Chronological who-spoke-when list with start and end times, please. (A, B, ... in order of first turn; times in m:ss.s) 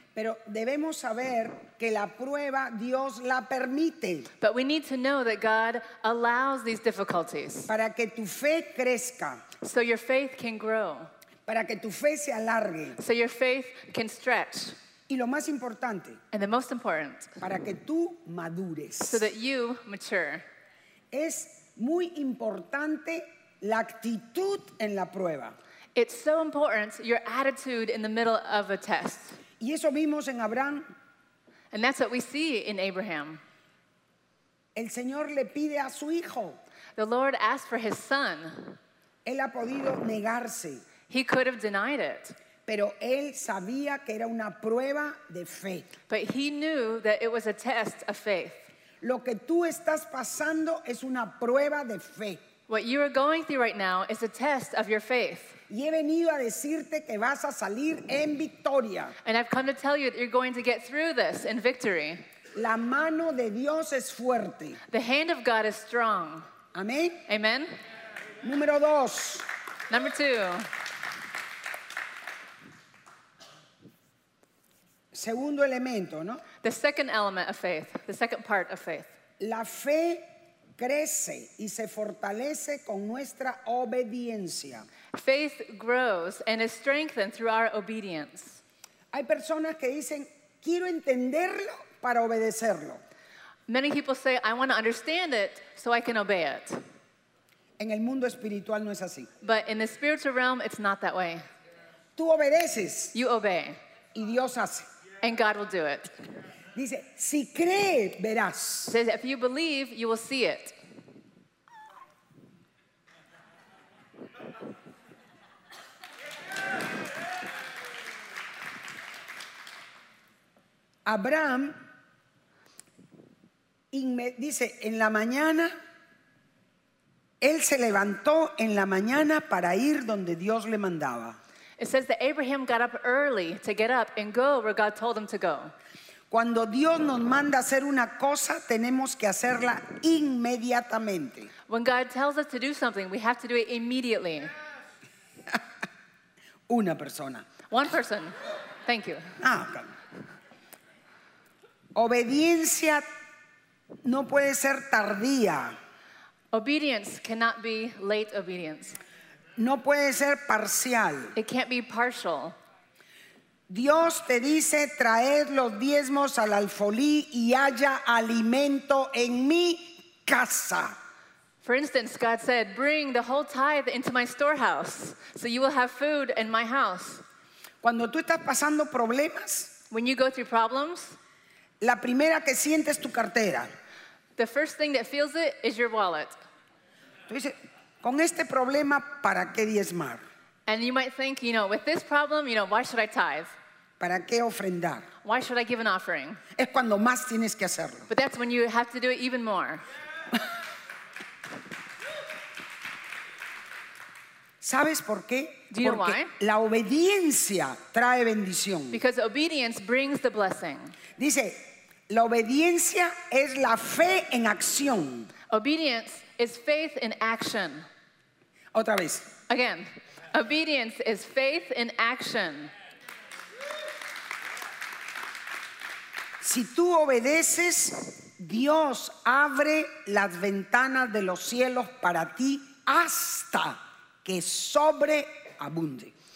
0:00.2-0:04.3 A
0:04.4-0:07.7 B
0:07.7-0:09.4 A
0:09.6-0:11.1 B
0:11.5-0:13.0 A
0:13.0-0:14.8 B
0:15.1-0:16.2 A
0:16.3-0:17.3 B
0:17.4-0:19.3 A
0:19.1-0:20.4 B
0:21.1-0:25.6 A
0:26.0-0:29.4 B
0:29.6-0:30.9 A
0:31.7-0:33.4 B
0:34.8-0:36.6 A
0:37.0-0:38.8 B
0:39.2-0:40.8 A
0:41.1-0:42.4 B
0:42.7-0:45.9 A
0:46.1-0:48.7 B
0:49.0-0:52.4 A
0:52.7-0:55.6 B
0:55.7-0:59.2 A
0:59.2-1:02.2 B
1:02.6-1:04.8 A
1:04.9-1:06.5 B
1:06.7-1:07.2 A
1:07.3-1:07.7 B
1:08.4-1:09.5 A
1:09.9-1:10.7 B
1:15.1-1:16.4 A
1:16.6-1:19.1 B
1:19.4-1:20.2 A
1:20.8-1:24.9 A
1:25.1-1:28.6 B
1:29.1-1:33.0 A
1:33.7-1:36.8 B
1:37.8-1:39.3 A
1:39.4-1:41.4 B
1:42.2-1:43.1 A
1:43.1-1:43.8 B
1:44.2-1:44.9 A
1:45.2-1:46.1 B
1:46.8-1:49.0 A
1:48.9-1:50.8 B
2:01.1-2:01.8 A
2:03.9-2:05.7 A
2:07.4-2:11.4 A
2:11.8-2:15.7 B
2:16.3-2:21.5 A
2:21.7-2:24.5 B
2:26.7-2:27.5 A
2:27.7-2:29.4 B
2:29.4-2:29.9 A
2:32.0-2:33.0 A
2:34.0-2:35.8 A
2:36.5-2:39.0 B
2:39.6-2:41.4 A
2:41.4-2:42.6 B
2:43.7-2:51.0 A
2:51.6-2:57.2 B
2:57.8-2:59.7 A
2:59.9-3:01.2 B
3:01.8-3:03.7 A
3:04.4-3:06.4 B
3:07.3-3:10.2 A
3:10.7-3:13.5 B
3:14.0-3:15.1 A
3:15.2-3:16.4 B
3:16.6-3:18.1 A
3:18.1-3:19.8 B
3:24.6-3:29.0 A
3:25.7-3:26.3 B
3:28.9-3:31.0 B
3:31.2-3:35.3 A
3:35.5-3:37.9 B
3:38.7-3:39.3 A
3:39.5-3:42.7 B
3:46.4-3:56.1 A